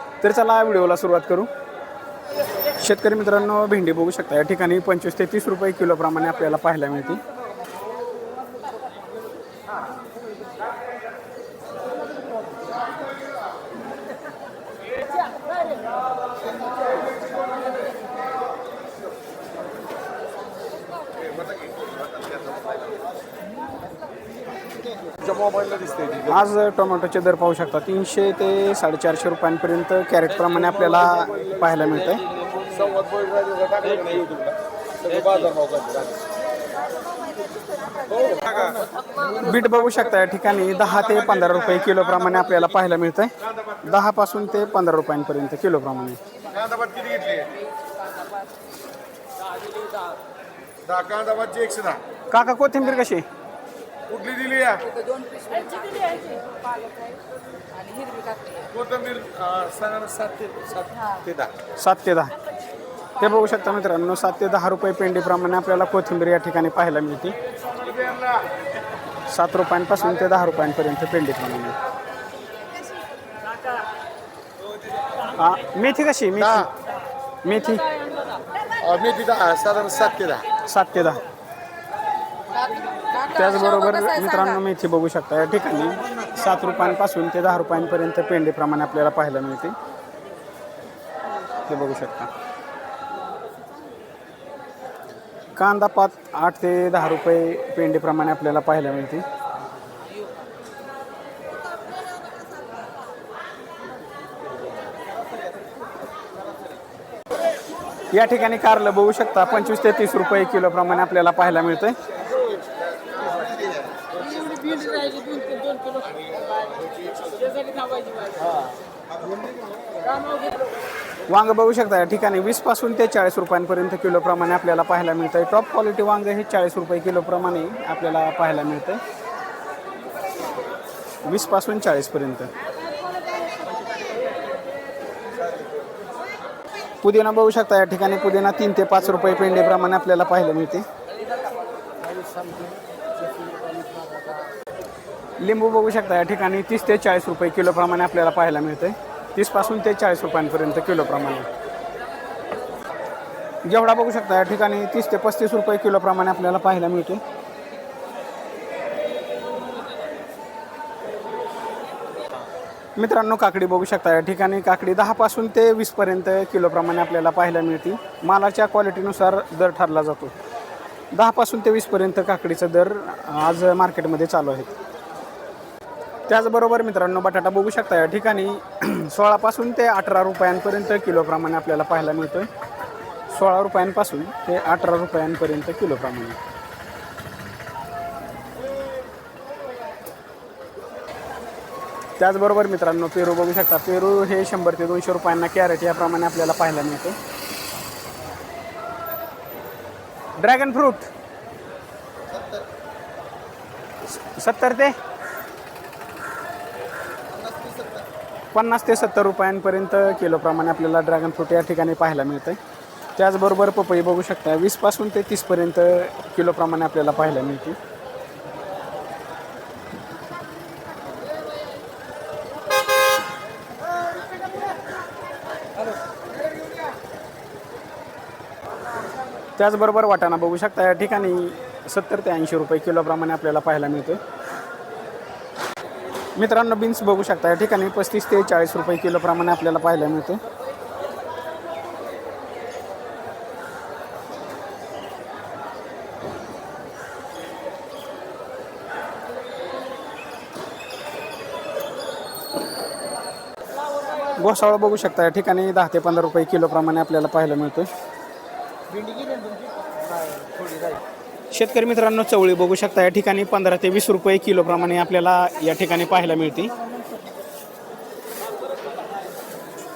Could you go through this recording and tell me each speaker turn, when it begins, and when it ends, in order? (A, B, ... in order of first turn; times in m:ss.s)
0:00.2-0:01.5 A
0:02.8-0:07.2 A
0:25.2-0:26.2 B
0:26.2-0:32.2 A
0:32.7-0:34.5 B
0:35.1-0:36.1 B
0:39.3-0:46.2 A
0:46.6-0:47.5 B
0:50.8-0:52.0 B
0:52.3-0:53.2 A
0:54.1-0:54.8 B
0:54.8-0:56.5 C
0:57.8-0:58.7 C
0:58.7-1:01.5 B
1:01.8-1:02.3 A
1:03.2-1:07.3 A
1:09.3-1:11.8 A
1:15.4-1:16.7 A
1:17.4-1:17.8 A
1:18.8-1:20.4 B
1:20.6-1:21.2 A
1:23.2-1:29.7 A
1:31.7-1:32.3 A
1:35.6-1:39.2 A
1:48.1-1:52.0 A
1:54.4-1:55.9 C
2:01.3-2:09.0 A
2:11.2-2:12.5 A
2:17.0-2:20.8 A
2:25.4-2:31.5 A
2:33.6-2:37.2 A
2:43.0-2:50.3 A
2:51.1-2:54.7 A
2:56.3-3:02.5 A
3:03.3-3:06.4 A
3:12.2-3:17.2 A
3:20.4-3:21.1 A
3:24.1-3:25.0 A
3:28.5-3:32.6 A
3:33.2-3:37.8 A
3:49.6-3:54.2 A
3:56.4-4:00.4 A
4:14.4-4:17.9 A
4:21.5-4:26.7 A